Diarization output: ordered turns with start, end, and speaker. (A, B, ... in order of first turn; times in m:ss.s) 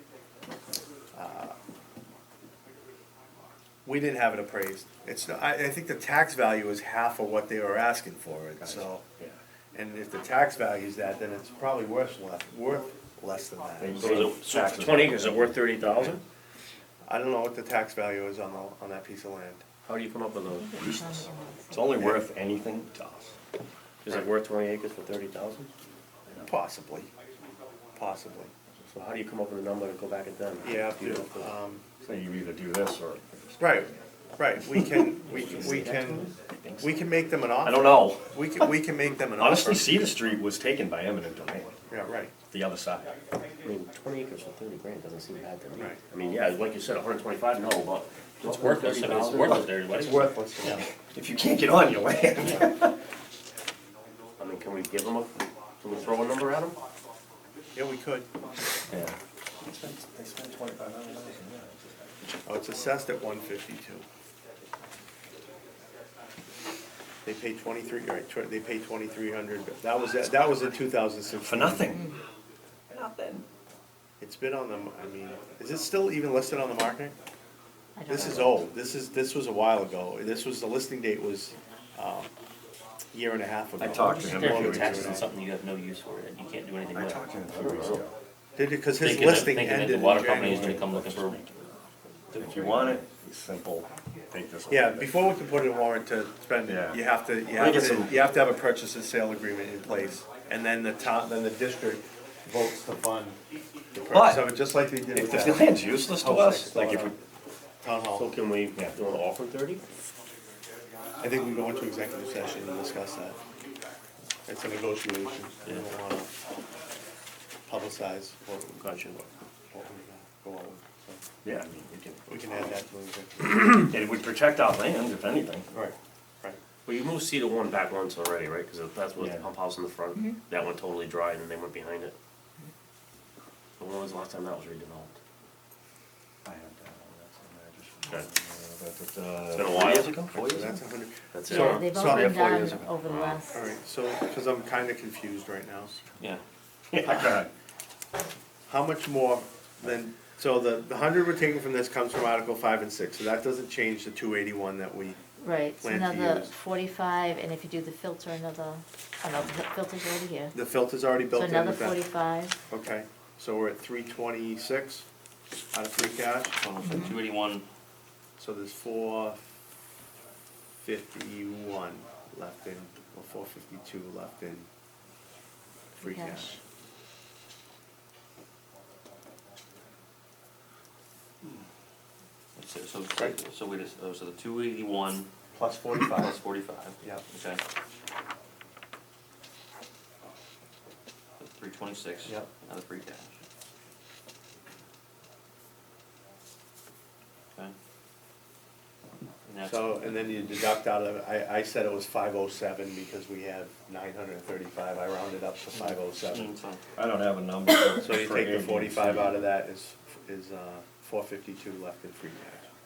0:01.1-0:01.6 A
0:03.8-0:09.0 A
0:08.6-0:09.4 B
0:09.7-0:14.1 A
0:13.8-0:15.6 B
0:14.0-0:16.2 C
0:14.0-0:14.4 D
0:17.0-0:19.6 A
0:19.9-0:20.7 C
0:20.5-0:21.9 E
0:20.8-0:23.3 B
0:22.0-0:22.2 A
0:24.0-0:25.7 C
0:26.4-0:27.1 A
0:27.9-0:28.5 A
0:28.8-0:31.5 C
0:30.6-0:31.8 A
0:32.0-0:34.0 B
0:33.6-0:40.0 A
0:34.7-0:35.8 B
0:35.2-0:36.9 C
0:37.6-0:38.4 B
0:39.4-0:41.7 B
0:41.9-0:42.3 A
0:42.5-0:43.2 B
0:43.6-0:49.8 C
0:48.4-0:50.4 D
0:49.4-0:53.0 B
0:50.0-0:50.8 A
0:54.4-0:56.8 C
0:57.7-0:58.3 A
0:58.9-1:02.2 B
1:02.4-1:04.0 A
1:07.2-1:12.0 A
1:11.4-1:12.1 B
1:12.9-1:13.4 B
1:14.2-1:17.1 A
1:18.0-1:18.5 E
1:18.1-1:22.3 A
1:23.1-1:25.3 A
1:23.8-1:25.3 B
1:23.9-1:27.3 D
1:26.9-1:28.1 B
1:27.6-1:28.0 C
1:28.6-1:30.9 A
1:29.0-1:31.4 D
1:30.4-1:31.6 B
1:32.3-1:33.0 D
1:32.4-1:35.1 B
1:34.7-1:43.4 A
1:36.7-1:37.0 B
1:37.6-1:38.1 B
1:43.9-1:47.2 A
1:44.1-1:44.5 B
1:45.1-1:47.2 B
1:47.8-1:48.3 A
1:48.1-1:49.8 C
1:51.2-1:53.4 A
1:54.4-1:56.3 A
1:57.6-1:59.1 A
1:58.8-1:59.2 C
1:59.7-2:01.2 A
2:01.4-2:02.3 B
2:02.3-2:03.6 A
2:03.6-2:05.7 B
2:05.7-2:06.6 A
2:06.8-2:12.1 C
2:09.2-2:09.5 B
2:10.1-2:10.4 E
2:13.8-2:15.2 C
2:16.4-2:20.8 B
2:19.5-2:20.4 C
2:20.4-2:22.9 A
2:21.3-2:21.8 C
2:21.5-2:23.7 E
2:21.5-2:21.9 D
2:23.0-2:23.4 C
2:23.5-2:26.0 A
2:26.9-2:27.5 B
2:27.0-2:27.4 A
2:28.7-2:35.2 A
2:35.4-2:40.5 E
2:35.8-2:36.5 A
2:40.5-2:42.1 A
2:41.3-2:42.6 E
2:42.7-2:45.1 A
2:45.7-2:46.6 A
2:46.6-2:47.6 D
2:48.4-2:49.5 A
2:50.8-2:54.7 A
2:56.0-2:56.6 A
2:56.0-2:56.6 E
3:02.6-3:05.3 D
3:05.5-3:06.4 A
3:05.9-3:07.6 D
3:11.4-3:13.3 D
3:19.4-3:20.1 D
3:19.6-3:26.5 A
3:25.9-3:26.8 D
3:27.0-3:29.4 B
3:28.0-3:32.7 A